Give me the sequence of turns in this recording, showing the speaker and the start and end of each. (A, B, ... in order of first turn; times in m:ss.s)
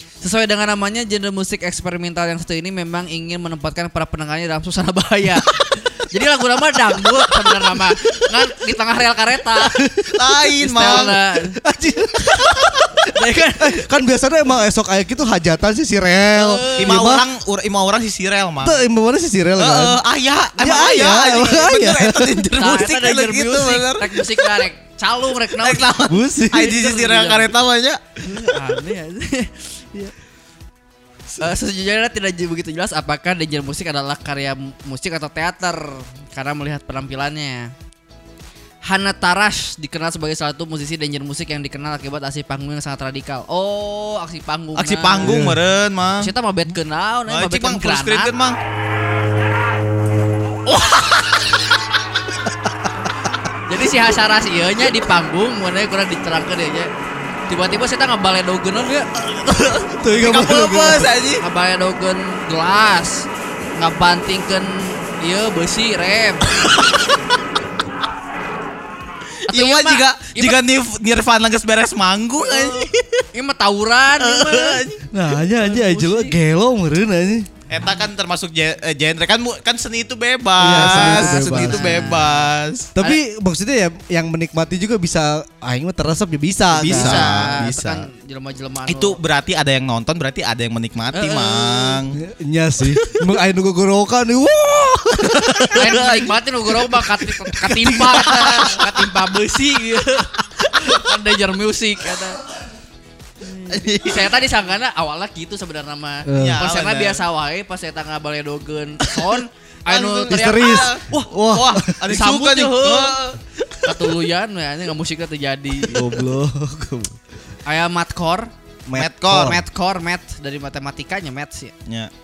0:00.2-0:09.8 A
0:09.6-0:10.1 B
0:10.1-0:11.2 C
0:10.6-0:11.6 A
0:11.6-0:13.0 B
0:13.1-0:13.8 A
0:13.6-0:17.2 B
0:16.4-0:17.1 A
0:16.8-0:18.8 C
0:18.6-0:20.0 B
0:19.6-0:24.6 C
0:20.6-0:22.4 B
0:22.5-0:26.0 A
0:25.6-0:28.0 C
0:26.1-0:26.8 B
0:26.5-0:27.5 A
0:28.2-0:30.1 A
0:31.4-0:37.7 A
0:38.8-0:45.4 A
0:44.8-0:46.3 C
0:45.2-0:45.6 B
0:46.2-0:48.3 A
0:47.3-0:48.6 C
0:50.8-0:51.2 C
0:53.7-0:56.9 A
0:57.5-0:59.1 A
0:59.3-1:01.4 C
1:00.0-1:01.1 B
1:01.4-1:06.5 A
1:09.5-1:13.3 C
1:09.5-1:10.6 A
1:12.4-1:14.8 A
1:14.2-1:15.0 C
1:15.1-1:17.5 B
1:15.6-1:16.4 A
1:17.7-1:22.9 C
1:20.6-1:22.1 B
1:20.7-1:22.5 A
1:23.0-1:27.5 B
1:26.8-1:28.1 C
1:26.8-1:29.2 A
1:28.9-1:32.2 C
1:31.1-1:32.0 A
1:32.1-1:35.8 B
1:35.2-1:36.3 C
1:35.7-1:42.4 A
1:37.7-1:38.4 B
1:38.3-1:38.8 C
1:43.5-1:53.2 A
1:43.7-1:44.4 C
1:46.3-1:46.6 B
1:46.4-1:47.2 C
1:49.0-1:49.3 C
1:49.9-1:51.0 C
1:50.3-1:51.9 B
1:51.8-1:54.0 C
1:53.8-1:56.2 A
1:55.9-1:57.2 B
1:57.7-1:58.5 A
1:58.9-1:59.6 B
1:59.0-1:59.6 C
1:59.3-2:01.7 A